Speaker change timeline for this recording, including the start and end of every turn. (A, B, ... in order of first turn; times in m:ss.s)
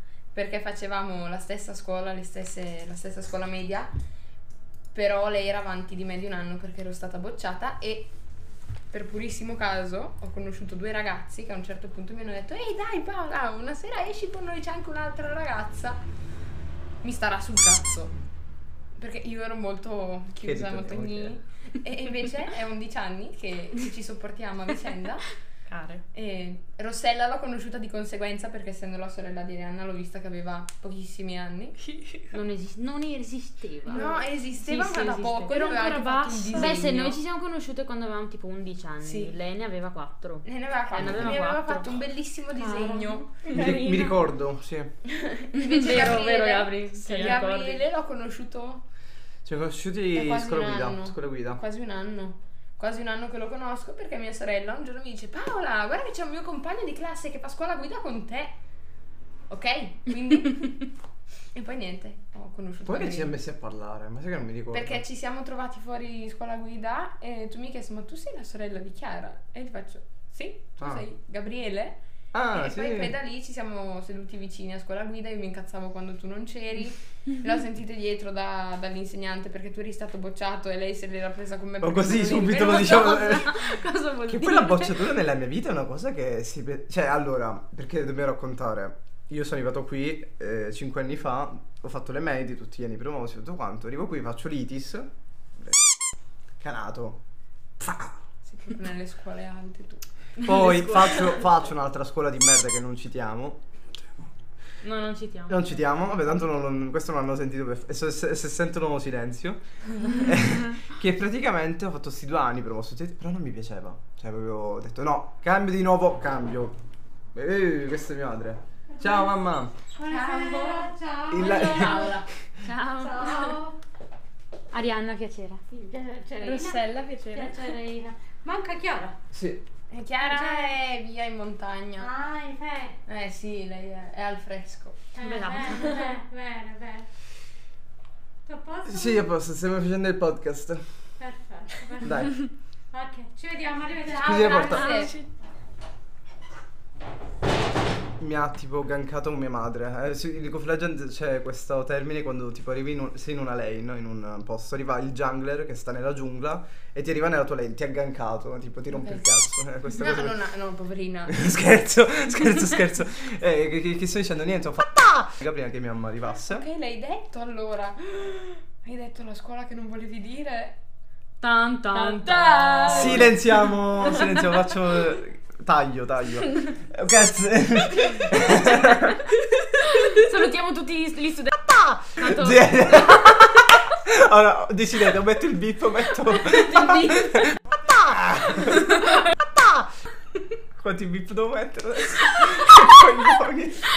0:00.3-0:03.9 A
0:04.9-0:08.1 A
0:08.9-0:16.0 A
0:17.0-0:18.2 A
0:19.0-0:25.3 A
0:20.4-0:21.4 B
0:25.7-0:26.0 C
0:26.1-0:31.8 A
0:32.3-0:35.5 D
0:33.9-0:37.2 A
0:35.5-0:36.9 C
0:36.5-0:42.0 D
0:39.0-0:39.4 A
0:40.4-0:43.4 A
0:41.0-0:41.5 B
0:42.6-0:44.2 D
0:43.5-0:44.9 B
0:45.0-0:48.8 A
0:45.5-0:47.8 D
0:47.0-0:47.4 C
0:49.4-0:51.6 B
0:50.1-0:58.5 A
0:59.5-1:00.9 A
1:01.5-1:03.3 A
1:02.8-1:05.0 B
1:04.7-1:12.0 A
1:10.8-1:11.0 B
1:12.3-1:13.2 B
1:12.5-1:23.4 A
1:21.8-1:23.7 B
1:22.6-1:25.1 D
1:24.3-1:35.8 B
1:36.6-1:37.2 B
1:37.8-1:38.2 B
1:38.5-1:40.0 A
1:40.4-1:43.6 B
1:44.8-1:45.7 D
1:45.5-1:56.8 B
1:57.3-1:59.7 B
2:00.0-2:02.1 E
2:00.1-2:02.3 A
2:01.3-2:02.2 B
2:02.6-2:03.7 D
2:03.0-2:03.8 E
2:04.7-2:05.7 D
2:05.7-2:06.8 E
2:06.4-2:07.6 C
2:07.3-2:09.2 E
2:09.3-2:09.6 B
2:09.9-2:12.2 A
2:10.2-2:10.8 E
2:12.0-2:13.0 E
2:13.1-2:15.1 A
2:15.2-2:17.1 E
2:15.2-2:16.1 D
2:15.7-2:16.1 A
2:18.5-2:19.2 E
2:18.8-2:20.8 B
2:21.2-2:22.2 E
2:22.0-2:22.4 B
2:22.9-2:25.0 E
2:24.1-2:25.1 B
2:24.1-2:25.2 A
2:24.7-2:25.2 C
2:28.2-2:40.4 B
2:38.9-2:39.2 A
2:39.9-2:41.5 A
2:41.3-2:46.7 B
2:46.5-2:50.8 A
2:51.4-2:53.3 D
2:52.0-2:53.0 C
2:52.4-2:53.3 A
2:52.8-2:59.2 B
2:59.9-3:01.6 D
3:01.7-3:09.8 B
3:02.1-3:03.2 D
3:06.7-3:07.3 D
3:10.8-3:13.9 B